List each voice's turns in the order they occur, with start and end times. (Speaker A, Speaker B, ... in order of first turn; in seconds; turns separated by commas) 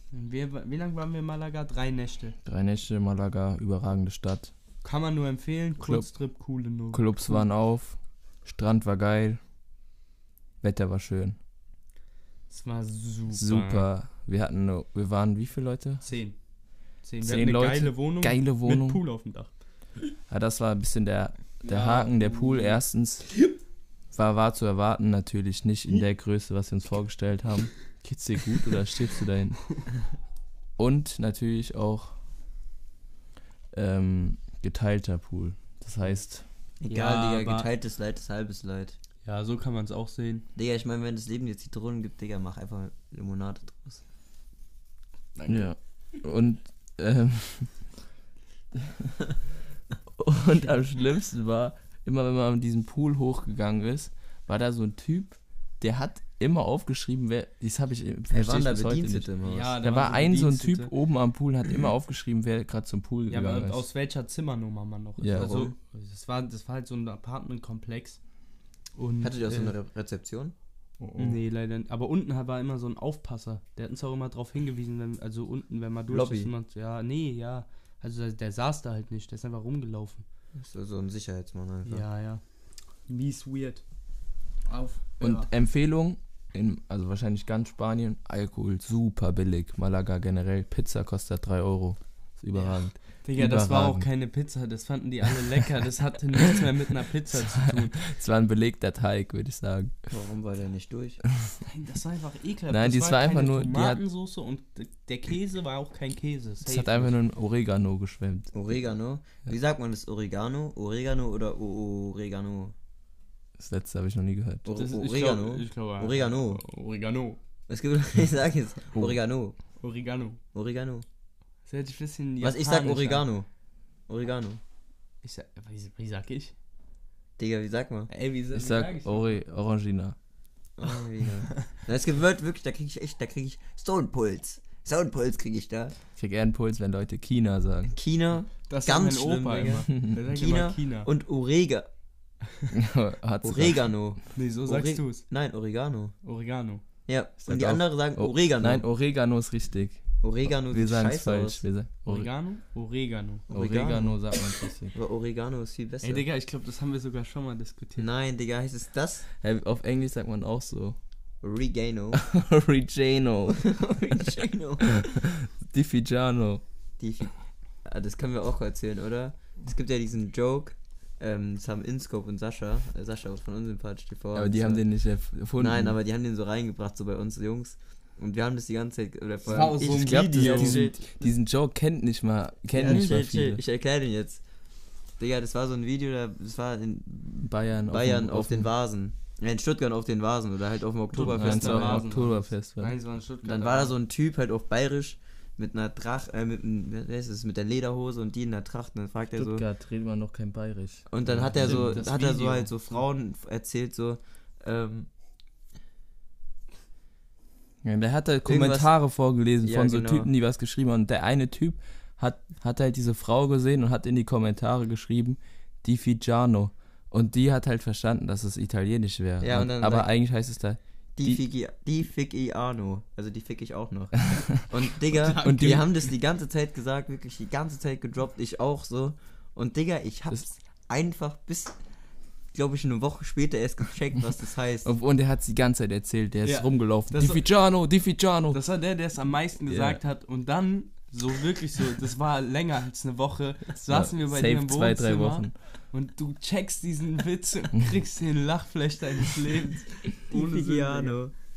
Speaker A: 0.1-2.4, Speaker B: 2.4-4.5, Speaker A: 4.8-7.4, Speaker B: 5.8-6.1, Speaker B: 6.9-9.4, Speaker B: 10.6-11.4, Speaker A: 12.5-13.9, Speaker B: 13.3-16.1, Speaker A: 16.0-16.4, Speaker A: 17.0-19.5, Speaker B: 17.2-19.0, Speaker B: 20.3-23.4, Speaker A: 21.6-22.8, Speaker B: 24.1-29.8, Speaker B: 30.8-32.2, Speaker B: 33.7-36.5, Speaker C: 36.8-39.0, Speaker A: 36.9-37.7, Speaker A: 39.2-40.5, Speaker C: 40.5-44.0, Speaker A: 45.4-45.7, Speaker B: 45.5-47.8, Speaker B: 48.7-49.1, Speaker B: 50.1-59.3, Speaker C: 58.3-59.7, Speaker A: 59.4-60.9, Speaker B: 59.8-63.9, Speaker A: 63.3-68.2, Speaker B: 65.2-65.7, Speaker C: 65.3-65.7, Speaker A: 68.9-69.7, Speaker C: 69.2-70.5, Speaker B: 71.0-71.4, Speaker A: 71.2-80.2, Speaker C: 76.1-76.5, Speaker C: 80.5-82.0, Speaker A: 81.8-82.4, Speaker A: 83.1-83.8, Speaker A: 84.7-85.5, Speaker B: 85.2-94.0, Speaker A: 92.5-98.0, Speaker B: 97.3-99.9, Speaker C: 100.1-101.2, Speaker A: 101.6-107.1, Speaker B: 102.7-104.0, Speaker B: 106.7-108.5, Speaker C: 108.5-112.7, Speaker B: 113.6-114.7, Speaker C: 114.6-116.6, Speaker A: 114.7-117.4, Speaker C: 117.7-119.6, Speaker A: 119.8-120.4, Speaker C: 120.5-121.0, Speaker A: 121.7-123.2, Speaker C: 122.4-123.5, Speaker C: 124.1-124.6, Speaker A: 125.2-126.5, Speaker C: 127.4-128.1, Speaker A: 128.1-129.4, Speaker B: 128.5-130.2, Speaker C: 130.8-135.9, Speaker B: 136.2-138.0, Speaker C: 137.9-141.9, Speaker A: 138.7-141.1, Speaker B: 142.7-143.9, Speaker C: 143.4-146.1, Speaker A: 144.3-145.2, Speaker A: 146.2-146.8, Speaker C: 147.1-148.8, Speaker B: 147.4-152.3, Speaker C: 150.2-151.6, Speaker A: 152.1-153.4, Speaker C: 153.5-154.3, Speaker B: 153.5-154.9, Speaker C: 154.9-156.2, Speaker A: 156.0-158.1, Speaker C: 158.0-159.3, Speaker B: 159.4-161.0, Speaker C: 161.4-162.2, Speaker B: 162.1-164.2, Speaker C: 163.5-165.1, Speaker B: 164.9-166.6, Speaker C: 167.0-174.9, Speaker B: 174.3-175.9, Speaker C: 175.5-180.9, Speaker A: 179.4-181.0, Speaker B: 179.9-183.6, Speaker C: 182.8-184.4, Speaker C: 185.2-192.0, Speaker B: 187.4-188.7, Speaker A: 191.1-193.9, Speaker B: 191.2-193.0, Speaker C: 193.4-199.6, Speaker B: 199.3-202.4, Speaker C: 201.1-205.1, Speaker A: 201.6-202.7, Speaker B: 207.8-221.4, Speaker C: 208.4-208.9, Speaker C: 209.6-210.3, Speaker C: 219.4-220.1, Speaker C: 221.2-231.8, Speaker A: 225.1-225.9, Speaker B: 225.3-225.9, Speaker C: 232.5-234.9, Speaker B: 234.8-238.6, Speaker A: 236.4-237.5, Speaker A: 238.5-251.2, Speaker B: 239.7-240.0, Speaker B: 243.8-245.5, Speaker C: 250.3-251.3